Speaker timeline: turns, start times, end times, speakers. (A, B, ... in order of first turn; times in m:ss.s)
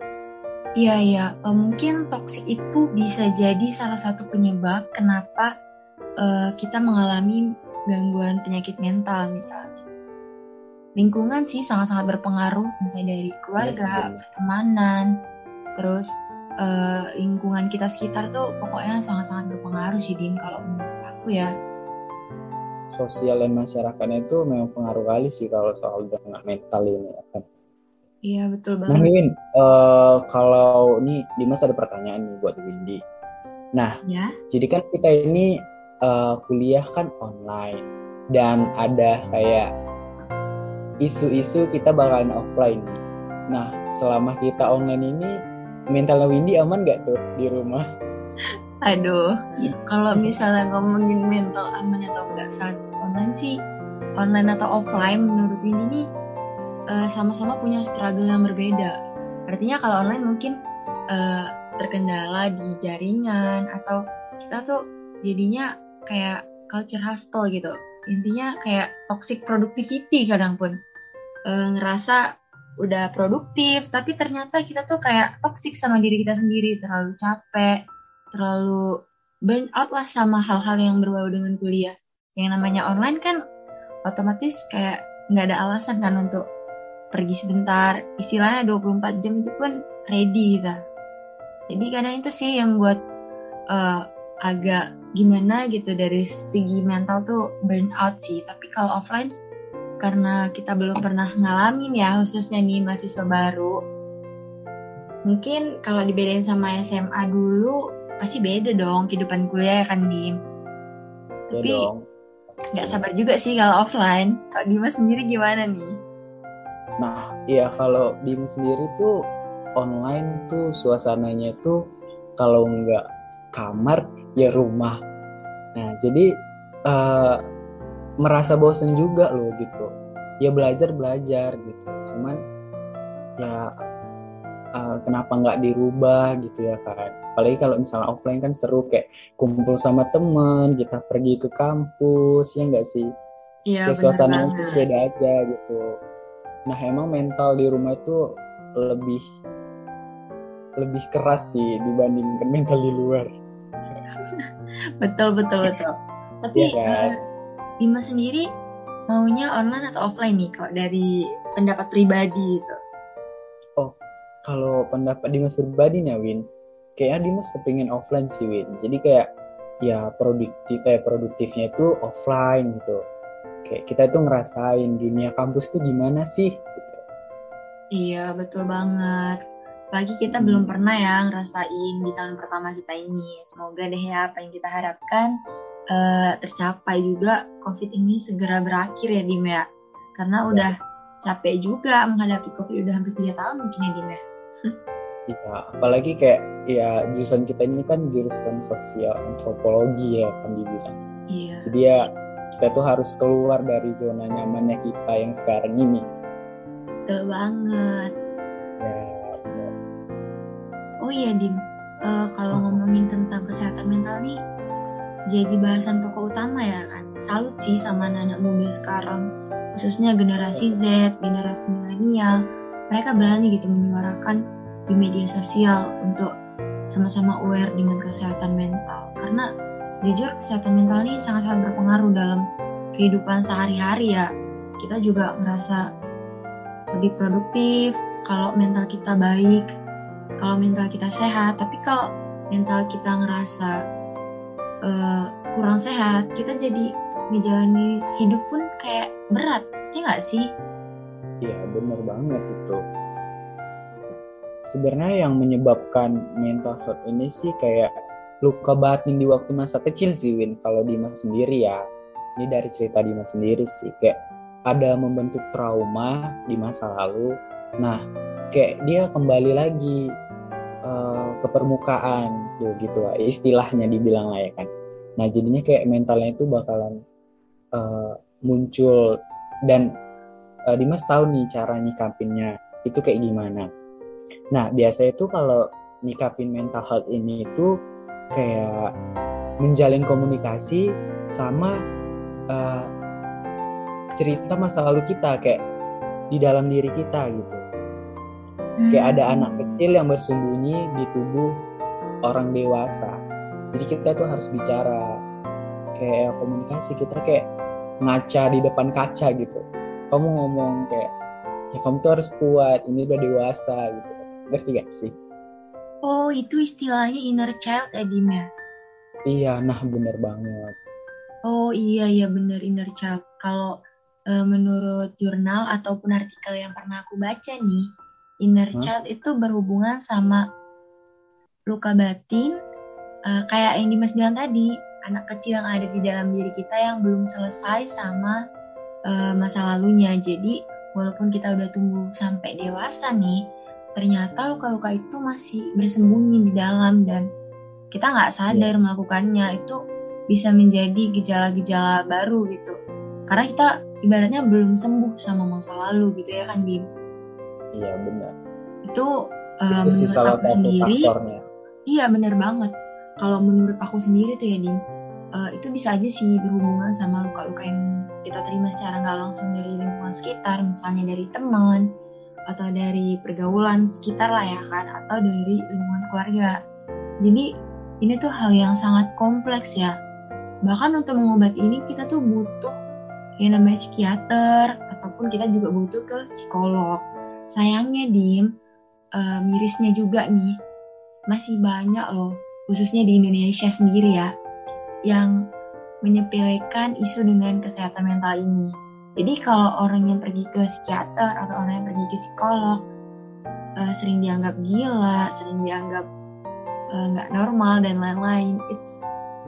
0:00.8-0:05.5 A
0:06.2-0:09.8 A
0:11.0-0:15.1 A
0:13.6-0:14.2 B
0:15.8-0:21.5 A
0:22.9-0:27.4 B
0:28.3-0:29.1 A
0:28.9-0:33.0 B
0:34.0-0:34.3 A
0:34.5-0:39.7 B
0:41.0-0:45.3 B
0:45.9-0:47.8 B
0:48.8-0:49.3 A
0:49.9-0:53.5 A
0:54.2-0:56.0 A
0:56.9-0:59.0 A
0:59.5-1:00.6 A
1:01.1-1:10.8 A
1:11.5-1:12.2 A
1:12.8-1:17.8 A
1:18.3-1:18.8 A
1:19.5-1:23.4 A
1:24.1-1:26.4 A
1:27.1-1:30.8 A
1:31.7-1:33.0 A
1:33.7-1:39.3 A
1:40.0-1:43.8 A
1:45.3-1:50.3 A
1:51.5-1:51.9 A
1:51.5-1:52.0 B
1:52.8-1:55.9 A
1:52.8-1:53.0 B
1:57.0-1:59.1 B
1:59.8-2:01.8 B
2:02.4-2:03.0 B
2:03.5-2:05.0 B
2:05.8-2:06.3 B
2:06.9-2:07.4 B
2:08.2-2:09.9 B
2:10.4-2:12.4 B
2:13.4-2:13.7 B
2:14.8-2:23.1 B
2:23.7-2:24.8 A
2:23.9-2:25.8 B
2:26.7-2:28.2 B
2:28.8-2:29.2 B
2:30.8-2:33.3 B
2:35.0-2:35.9 A
2:36.4-2:37.1 A
2:36.6-2:37.1 B
2:37.8-2:38.4 A
2:39.1-2:42.8 A
2:43.8-2:46.4 B
2:47.0-2:49.3 B
2:49.8-2:53.0 B
2:53.7-2:57.0 B
2:58.0-2:59.4 A
2:59.9-3:05.3 A
3:00.4-3:00.7 B
3:05.9-3:09.7 A
3:10.2-3:14.2 A
3:15.3-3:21.0 B
3:21.3-3:22.1 A
3:21.6-3:26.1 B
3:27.1-3:28.1 A
3:28.8-3:29.7 B
3:31.0-3:34.4 A
3:32.5-3:32.8 B
3:35.3-3:42.4 A
3:42.9-3:44.4 A
3:44.9-3:46.3 A
3:46.9-3:49.5 A
3:50.0-3:52.4 A
3:53.0-3:54.3 A
3:54.8-3:55.8 A
3:56.9-3:59.6 A
4:00.4-4:03.7 A
4:04.9-4:10.5 A
4:11.4-4:12.8 B
4:14.7-4:17.9 B
4:18.4-4:21.8 B
4:22.4-4:24.2 B
4:24.7-4:27.3 B
4:28.5-4:30.0 B
4:30.9-4:37.0 B
4:37.8-4:39.1 B
4:40.7-4:43.7 B
4:44.5-4:47.7 B
4:48.3-4:48.9 B
4:49.6-4:51.7 B
4:52.5-4:52.9 B
4:54.2-4:55.6 B
4:56.3-4:57.6 B
4:58.8-4:59.8 A
4:58.9-5:01.5 B
5:02.3-5:03.2 B
5:03.7-5:05.0 B
5:06.0-5:07.5 B
5:08.0-5:11.1 B
5:11.7-5:15.1 B
5:16.0-5:18.4 A
5:19.3-5:20.8 B
5:21.5-5:23.7 A
5:24.3-5:27.8 A
5:28.4-5:30.4 A
5:31.7-5:32.6 A
5:33.3-5:38.4 A
5:39.1-5:43.4 A
5:44.0-5:47.2 A
5:47.9-5:49.8 A
5:50.3-5:52.8 A
5:53.3-5:56.8 A
5:57.8-5:58.3 B
5:59.7-6:01.1 A
5:59.7-6:01.4 B
6:01.9-6:04.8 A
6:05.4-6:11.8 A
6:12.5-6:16.6 A
6:18.0-6:19.9 A
6:20.7-6:22.7 A
6:23.4-6:27.0 A
6:27.5-6:28.5 A
6:29.2-6:30.5 A
6:31.3-6:34.3 A
6:35.1-6:35.3 A
6:36.0-6:42.8 A
6:43.8-6:46.1 A
6:46.9-6:49.0 A